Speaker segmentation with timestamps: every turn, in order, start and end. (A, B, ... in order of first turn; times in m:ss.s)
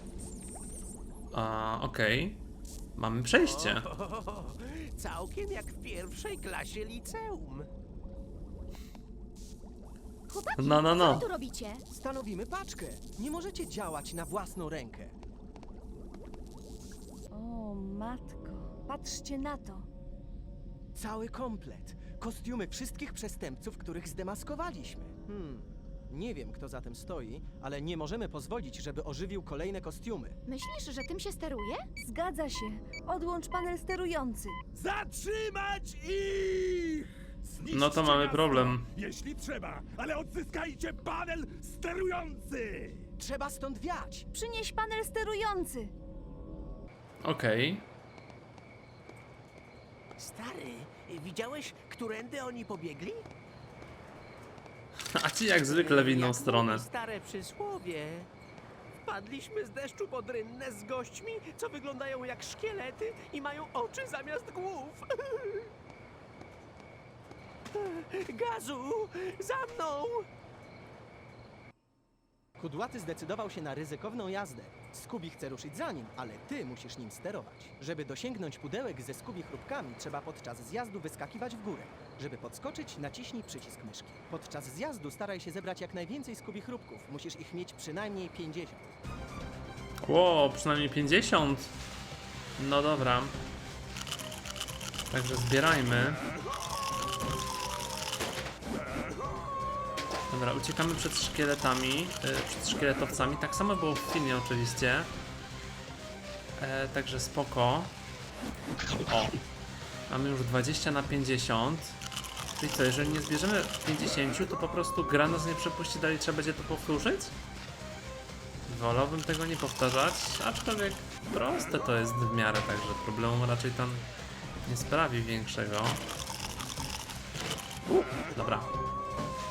0:01.3-0:02.4 A
0:03.0-0:03.9 A
0:03.4-0:07.7 B
0:10.3-0:11.8 C
0:10.6-0:11.3 A
0:11.9-0:15.2 D
0:17.3-0:19.9 E
0:21.0-0:30.4 D
0:30.5-0:31.8 C
0:32.0-0:34.6 E
0:34.7-0:43.1 F
0:37.7-0:38.9 A
0:43.2-0:44.3 D
0:44.3-0:45.9 E
0:47.2-0:47.8 A
0:50.2-0:53.2 B
0:55.2-0:56.8 A
0:55.6-0:58.3 B
0:59.0-1:05.7 B
1:07.7-1:10.3 B
1:12.6-1:29.0 D
1:30.0-1:31.7 A
1:32.6-1:33.4 A
1:35.1-1:36.2 A
1:40.3-1:45.1 A
1:46.6-1:48.0 A
1:49.1-1:49.4 A
1:50.1-1:52.0 A
1:52.5-1:57.4 A
1:58.7-2:04.1 A
2:04.6-2:06.0 A
2:07.8-2:08.8 A